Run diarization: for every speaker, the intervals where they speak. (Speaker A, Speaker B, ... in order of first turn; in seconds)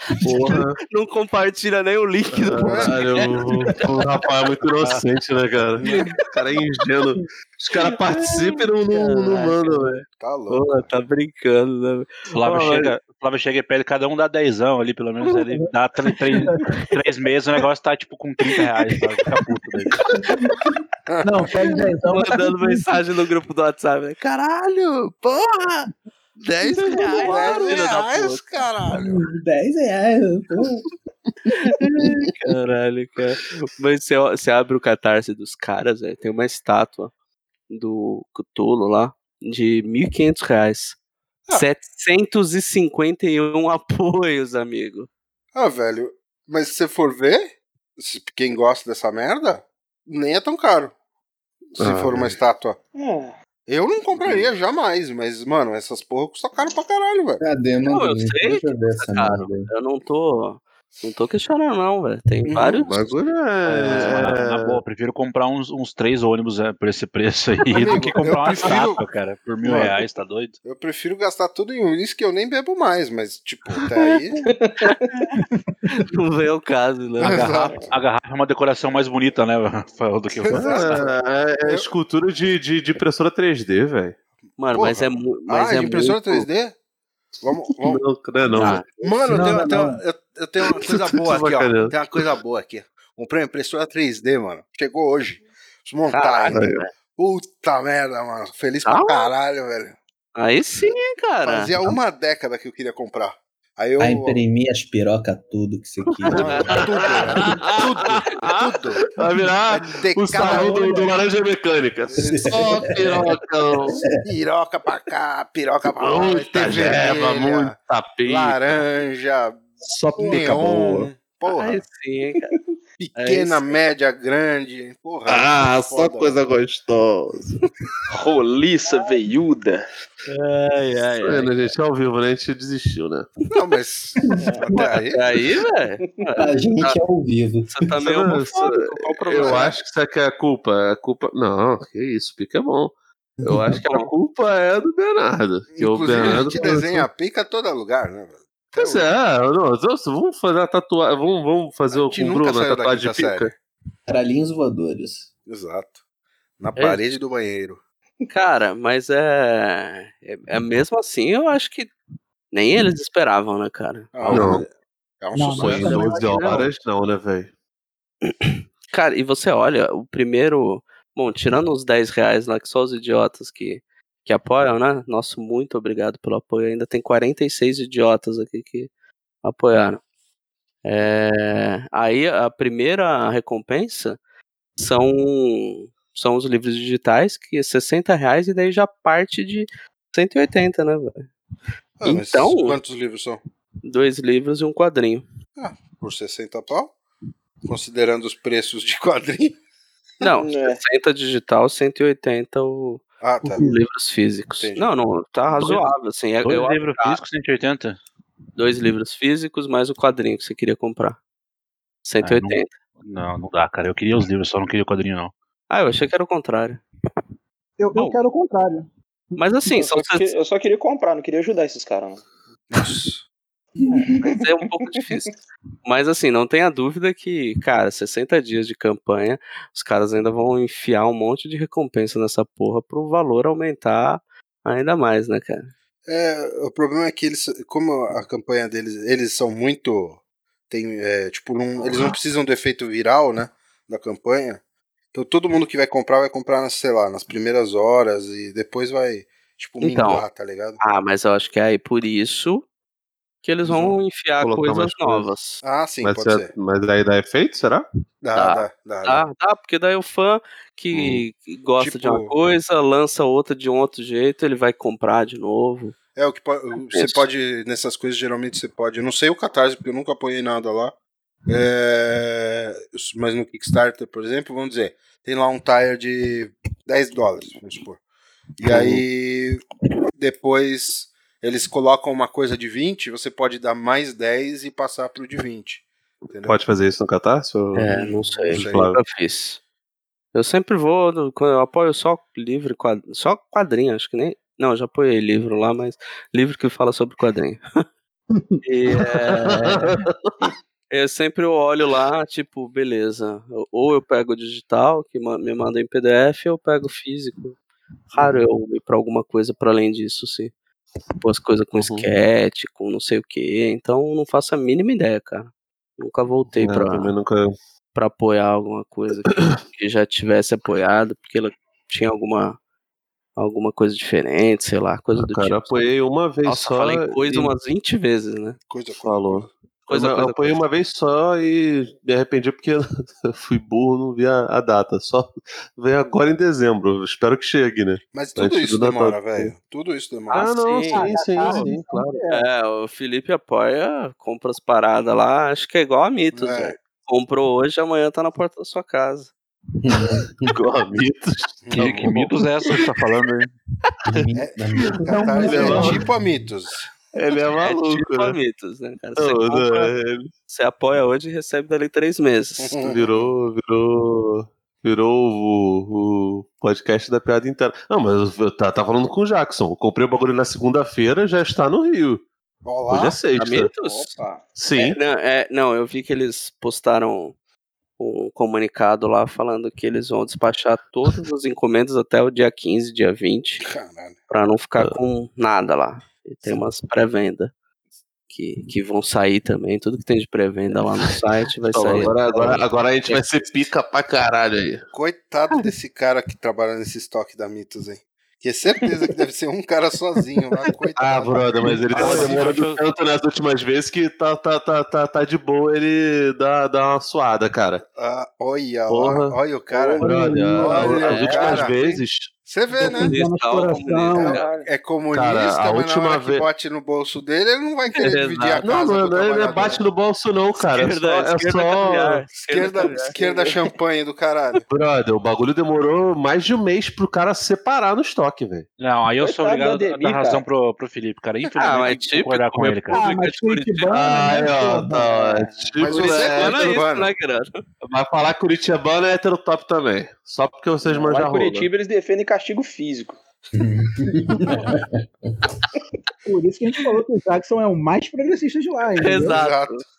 Speaker A: 0.2-0.8, 2.3-10.0, 51.8-52.4, 54.2-54.5, 62.8-64.8, 80.5-84.2, 87.8-89.1, 90.7-92.2, 96.5-96.8, 106.3-114.0, 116.0-118.8, 119.8-121.1, 125.3-127.6, 131.2-133.3, 138.0-147.1, 148.7-153.5, 164.3-164.7, 165.5-167.5, 254.4-255.3, 256.0-257.9, 260.9-261.2, 278.6-279.0, 286.4-287.9, 288.5-289.0, 298.9-300.3, 308.1-308.5, 311.8-312.1, 316.6-317.5, 319.3-319.6, 325.2-327.5, 329.0-339.5, 340.3-342.2, 350.5-352.3, 354.9-356.0, 357.1-358.4, 359.2-360.3, 362.8-372.2, 372.9-373.7, 374.5-375.0, 391.7-394.8, 401.0-407.8, 408.9-409.4, 410.0-412.3, 415.1-416.5, 418.6-422.2, 424.7-428.7, 433.9-436.8, 437.8-441.7
Speaker B: 0.4-3.5, 7.8-12.9, 21.6-25.8, 26.4-28.4, 31.5-37.1, 37.7-41.0, 41.5-45.1, 57.8-63.1, 74.8-75.3, 75.9-77.8, 84.6-86.5, 88.5-88.8, 96.1-96.9, 98.8-99.3, 100.3-101.7, 106.5-106.7, 121.5-122.5, 123.2-123.7, 130.3-131.7, 134.7-137.0, 137.7-139.8, 143.7-144.1, 156.8-157.0, 158.3-161.9, 162.5-164.6, 165.6-166.7, 168.3-178.9, 179.4-180.0, 180.8-184.2, 184.8-191.3, 192.0-192.8, 193.8-195.2, 200.2-207.2, 208.6-211.2, 212.0-212.7, 215.7-216.8, 219.4-220.3, 224.2-225.3, 225.8-235.7, 249.8-250.2, 250.8-252.6, 253.4-255.6, 258.4-265.9, 266.9-267.3, 287.7-289.6, 290.3-297.6, 298.6-299.9, 300.9-307.6, 308.1-310.5, 311.2-317.1, 317.9-322.6, 323.4-325.9, 326.4-328.6, 329.9-330.6, 340.3-341.7, 342.3-349.3, 357.6-359.9, 360.5-362.8, 373.3-374.1, 374.8-377.3, 378.0-383.6, 384.3-387.5, 388.3-393.2, 402.0-402.3, 411.0-411.7, 412.9-414.5, 418.0-418.6, 420.6-423.1, 431.6-434.0, 436.0-437.6, 449.0-449.8
Speaker C: 2.6-3.4, 10.1-10.8, 21.1-21.5, 27.1-29.2, 45.5-50.9, 51.8-52.8, 53.7-57.4, 62.5-62.8, 67.7-69.0, 69.6-70.0, 70.6-74.4, 77.2-77.9, 80.4-81.9, 84.7-86.8, 87.4-88.0, 89.0-96.6, 97.1-100.0, 101.4-104.4, 106.3-109.0, 109.7-111.1, 112.1-113.0, 114.2-121.8, 123.0-126.4, 133.5-135.2, 139.4-139.7, 145.7-149.1, 151.9-153.5, 155.5-156.0, 156.6-157.8, 164.1-166.1, 192.0-193.4, 195.6-196.9, 197.6-199.6, 203.2-203.7, 204.6-204.9, 222.7-223.2, 236.1-244.6, 245.1-250.8, 253.7-253.9, 255.6-256.5, 258.2-259.2, 261.8-262.3, 266.1-270.9, 271.5-278.0, 278.6-279.6, 280.1-286.6, 287.9-288.9, 328.7-329.5, 338.1-340.5, 346.3-346.8, 351.6-352.1, 354.3-356.9, 362.6-363.3, 372.6-373.2, 383.6-384.2, 394.9-402.4, 407.9-413.2, 414.1-419.8, 422.4-424.6, 435.8-437.1, 449.3-449.8
Speaker D: 12.3-19.9, 63.6-70.5, 77.2-81.0, 205.6-205.9, 206.4-208.0, 212.2-215.3, 351.7-353.5, 401.9-402.8, 428.8-433.0
Speaker E: 20.4-20.7, 26.9-27.4, 28.9-30.9, 57.4-59.7, 104.0-107.5, 112.2-113.3, 113.9-114.2, 134.2-134.6, 136.4-137.9, 143.4-143.8, 154.1-155.3, 349.8-350.5, 354.1-356.5, 443.6-444.8
Speaker F: 21.2-22.8, 89.3-90.0, 165.3-166.6, 217.8-218.9, 340.9-342.4, 410.0-410.9, 412.7-414.4, 432.9-435.0, 446.2-449.4
Speaker G: 52.9-53.4, 74.5-74.9, 128.1-129.8, 134.4-134.7, 200.3-200.8, 219.7-222.2, 373.8-374.5, 409.7-410.1, 414.3-414.7, 423.1-423.6, 429.2-430.4, 440.8-443.2